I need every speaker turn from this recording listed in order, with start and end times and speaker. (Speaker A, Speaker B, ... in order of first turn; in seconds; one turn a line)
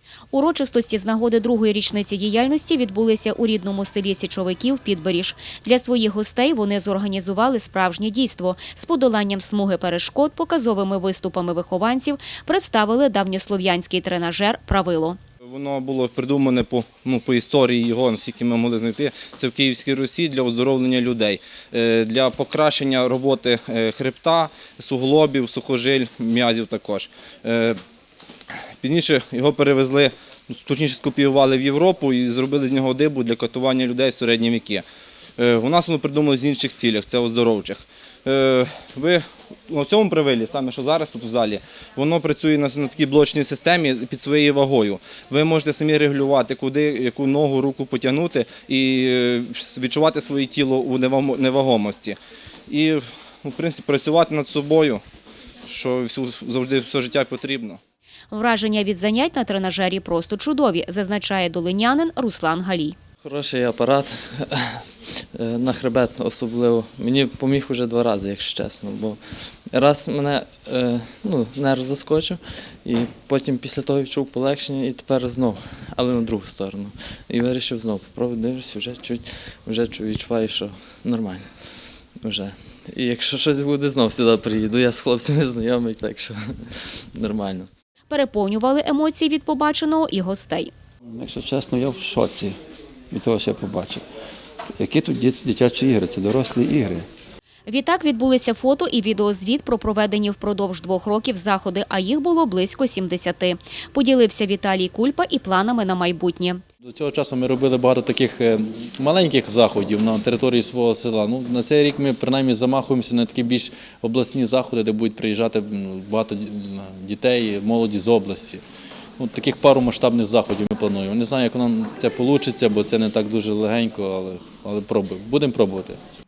Speaker A: 0.3-15.2
Speaker B: 15.4-27.8
Speaker B: 28.8-34.8
Speaker B: 35.4-52.2
Speaker B: 52.7-55.0
Speaker B: 55.6-57.8
Speaker A: 58.3-63.0
Speaker C: 63.2-87.7
Speaker A: 88.1-90.7
Speaker D: 91.1-92.6
Speaker D: 93.1-94.0
Speaker D: 94.8-97.1
Speaker A: 97.7-106.6
Speaker E: 106.8-118.6
Speaker E: 119.2-126.0